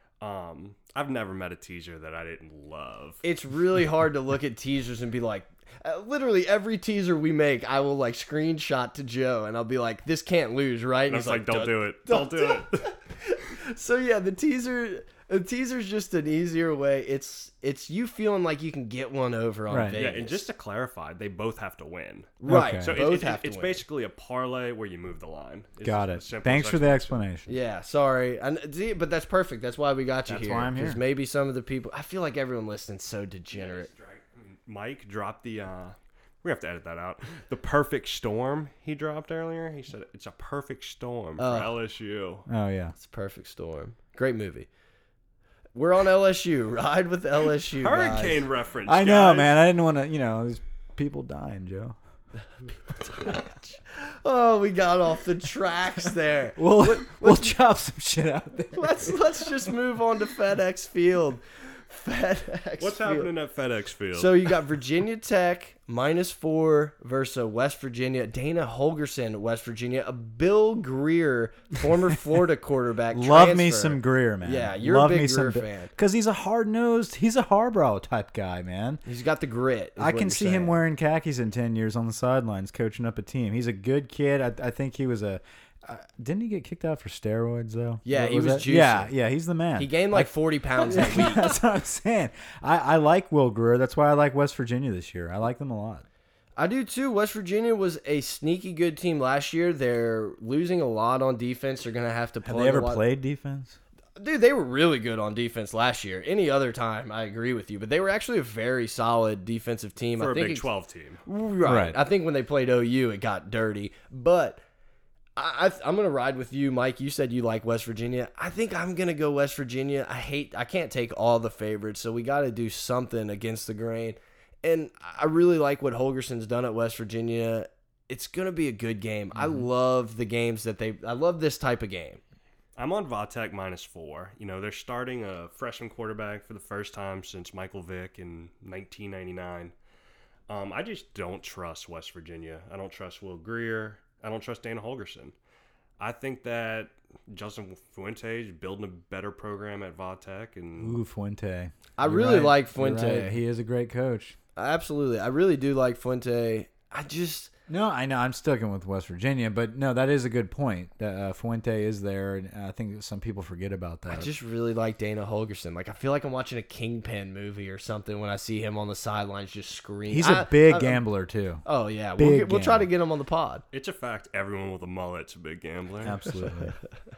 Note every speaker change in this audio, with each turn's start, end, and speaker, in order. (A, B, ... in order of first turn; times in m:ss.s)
0:00.2-0:03.2 A
0:03.2-0:20.4 B
0:11.1-0:12.9 A
0:19.7-0:20.0 C
0:19.9-0:27.2 A
0:22.4-0:23.8 B
0:22.5-0:23.0 C
0:25.8-0:27.5 C
0:27.5-0:33.9 B
0:30.3-0:31.0 C
0:33.5-0:42.4 A
0:41.4-0:41.7 B
0:42.5-0:42.9 C
0:43.0-0:44.7 B
0:45.7-0:48.4 B
0:47.8-0:49.5 A
0:48.9-0:52.0 C
0:53.0-0:57.5 B
0:56.6-0:59.2 C
0:58.7-1:03.3 B
1:02.8-1:04.5 A
1:04.1-1:15.9 B
1:13.1-1:19.0 C
1:19.0-1:20.8 B
1:20.0-1:36.0 C
1:28.0-1:29.1 B
1:29.8-1:31.5 B
1:36.6-1:43.0 B
1:42.4-1:43.8 C
1:44.2-1:50.7 B
1:50.2-1:51.2 A
1:51.2-1:54.6 B
1:51.6-1:52.0 C
1:55.4-2:12.2 B
2:09.4-2:09.6 C
2:12.8-2:19.7 A
2:20.5-2:25.3 A
2:26.0-2:31.0 A
2:30.8-2:34.4 C
2:32.0-2:33.4 B
2:34.6-2:37.5 B
2:37.7-2:44.3 C
2:44.1-2:51.0 B
2:50.1-2:51.6 C
2:51.6-2:53.6 B
2:52.2-2:52.9 C
2:53.7-2:56.3 A
2:56.0-2:56.8 C
2:56.4-2:56.8 B